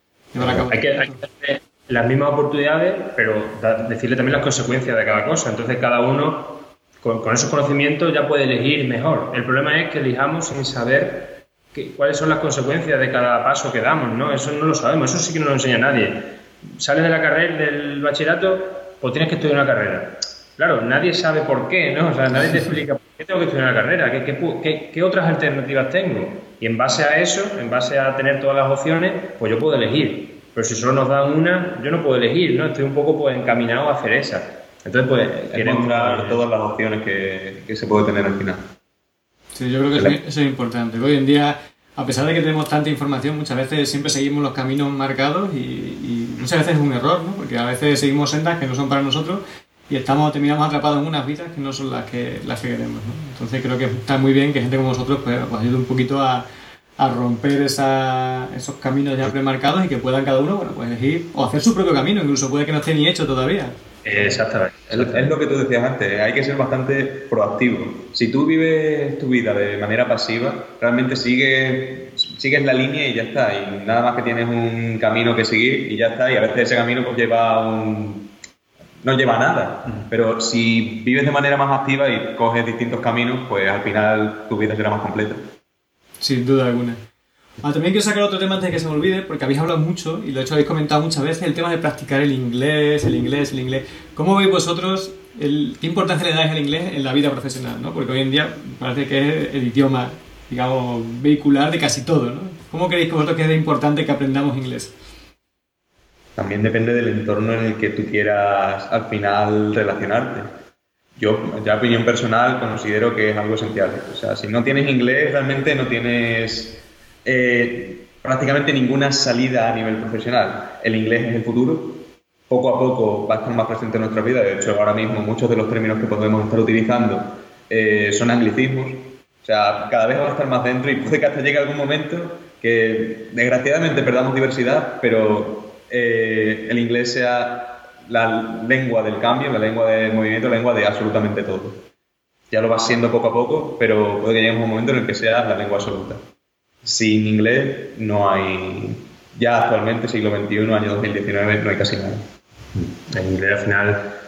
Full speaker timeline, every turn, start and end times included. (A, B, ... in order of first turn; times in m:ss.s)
0:00.3-0:01.2 A
0:00.4-0:36.4 B
0:35.5-0:38.7 C
0:39.6-0:56.4 A
0:57.0-1:03.8 A
1:04.0-1:05.3 B
1:04.9-1:18.3 C
1:19.0-1:25.5 C
1:26.2-1:27.0 A
1:27.6-1:44.9 A
1:46.4-1:50.5 C
1:51.2-2:21.8 C
2:22.5-2:26.2 C
2:26.8-2:32.3 C
2:32.8-2:34.1 B